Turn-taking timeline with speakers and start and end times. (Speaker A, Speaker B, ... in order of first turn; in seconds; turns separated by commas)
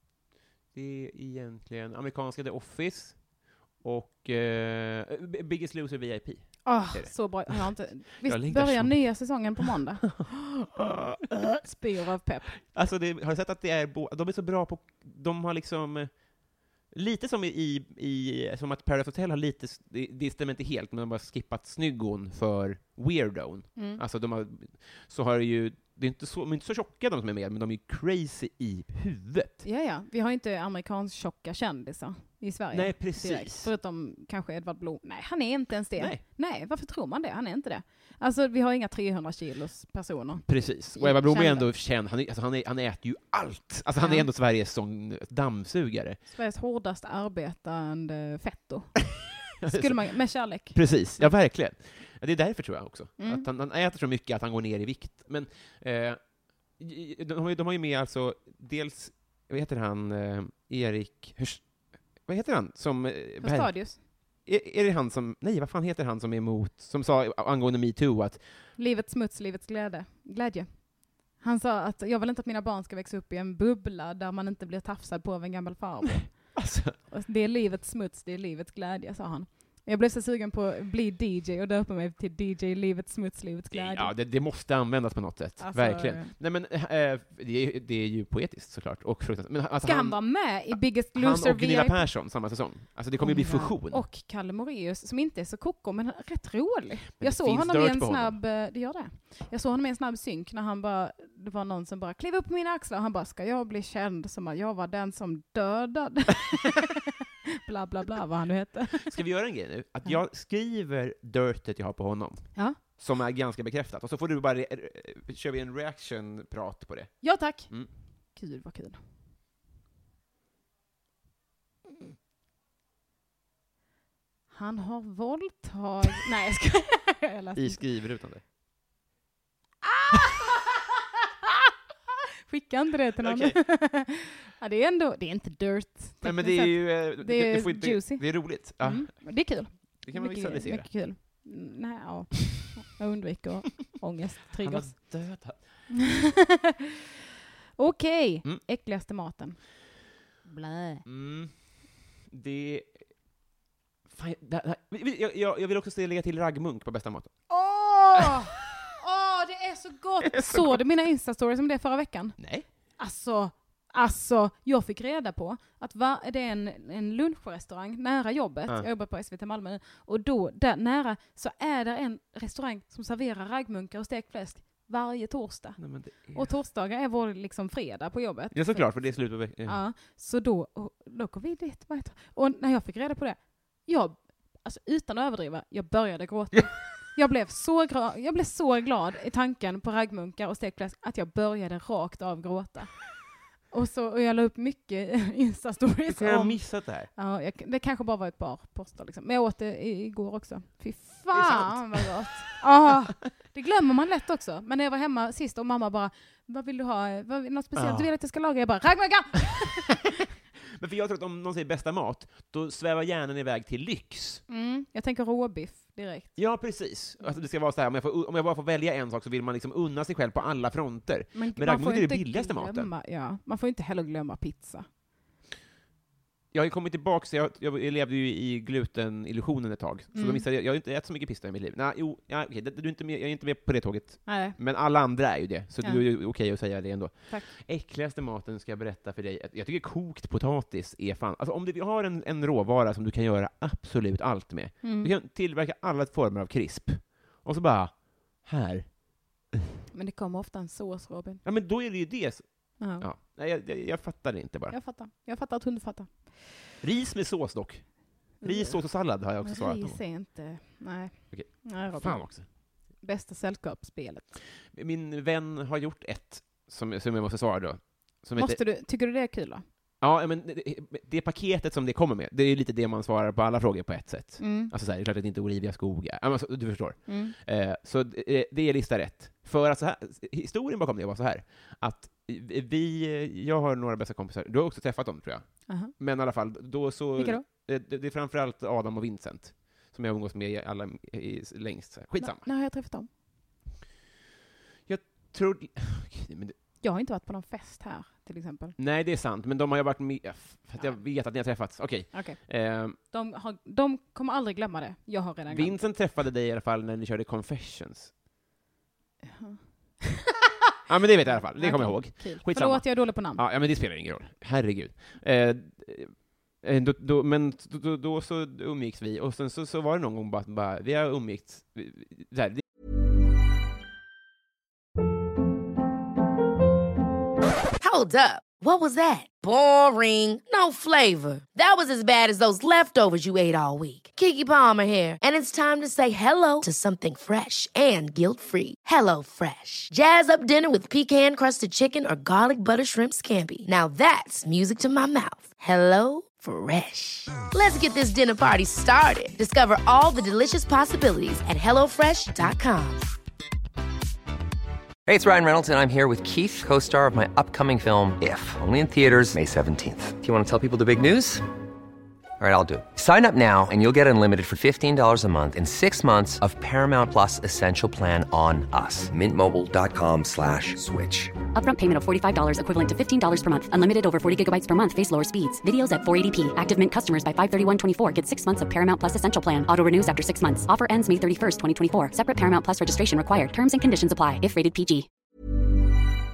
Speaker A: 0.7-9.6, Speaker B: 6.6-10.9, Speaker A: 10.7-11.3, Speaker B: 11.6-12.5, Speaker A: 12.6-29.6, Speaker B: 23.8-24.0, Speaker B: 29.6-41.7, Speaker A: 32.7-33.7, Speaker A: 36.0-36.2, Speaker A: 40.4-46.2, Speaker B: 44.0-44.3, Speaker B: 46.3-50.9, Speaker A: 49.6-68.6, Speaker B: 53.2-53.5, Speaker B: 63.4-64.0, Speaker B: 68.8-84.1, Speaker A: 76.5-77.0, Speaker A: 83.7-94.0, Speaker B: 85.6-86.3, Speaker B: 89.8-92.1, Speaker B: 93.2-106.9, Speaker A: 97.2-98.4, Speaker B: 107.7-109.1, Speaker A: 109.0-117.9, Speaker B: 117.2-119.0, Speaker B: 124.5-127.8, Speaker A: 127.5-128.4, Speaker B: 129.8-130.2, Speaker B: 132.5-145.4, Speaker A: 133.2-133.6, Speaker A: 136.2-140.9, Speaker A: 144.6-145.9, Speaker B: 147.8-149.7, Speaker B: 150.4-151.0, Speaker A: 151.0-153.1, Speaker A: 154.1-157.4, Speaker B: 157.5-210.1, Speaker A: 158.2-158.5, Speaker A: 160.2-160.8, Speaker A: 162.4-162.7, Speaker A: 175.8-176.5, Speaker A: 178.5-179.8, Speaker A: 196.1-197.1, Speaker A: 201.3-202.5, Speaker A: 207.7-208.1, Speaker A: 210.8-214.4, Speaker B: 214.5-216.7, Speaker A: 216.3-222.9, Speaker B: 221.3-224.9, Speaker A: 226.5-249.1, Speaker B: 230.1-230.4, Speaker B: 234.2-234.6, Speaker B: 235.8-236.1, Speaker B: 244.8-245.1, Speaker B: 249.9-251.4, Speaker A: 251.4-254.8, Speaker B: 252.8-253.1, Speaker B: 254.7-256.6, Speaker A: 256.8-260.0, Speaker B: 258.4-264.3, Speaker A: 261.3-262.5, Speaker A: 264.7-268.6, Speaker B: 268.4-269.6, Speaker A: 270.0-292.5, Speaker B: 274.4-274.7, Speaker B: 277.1-277.3, Speaker B: 285.7-285.9, Speaker B: 287.2-287.4, Speaker B: 292.2-293.1, Speaker A: 294.9-296.6, Speaker B: 296.8-298.8, Speaker A: 298.8-303.0, Speaker B: 300.8-301.0, Speaker B: 302.1-305.8, Speaker A: 305.5-308.1, Speaker B: 309.2-310.2, Speaker A: 310.9-322.6, Speaker B: 311.3-313.4, Speaker C: 327.8-353.1, Speaker D: 355.1-361.4, Speaker D: 362.4-371.4, Speaker E: 371.5-385.1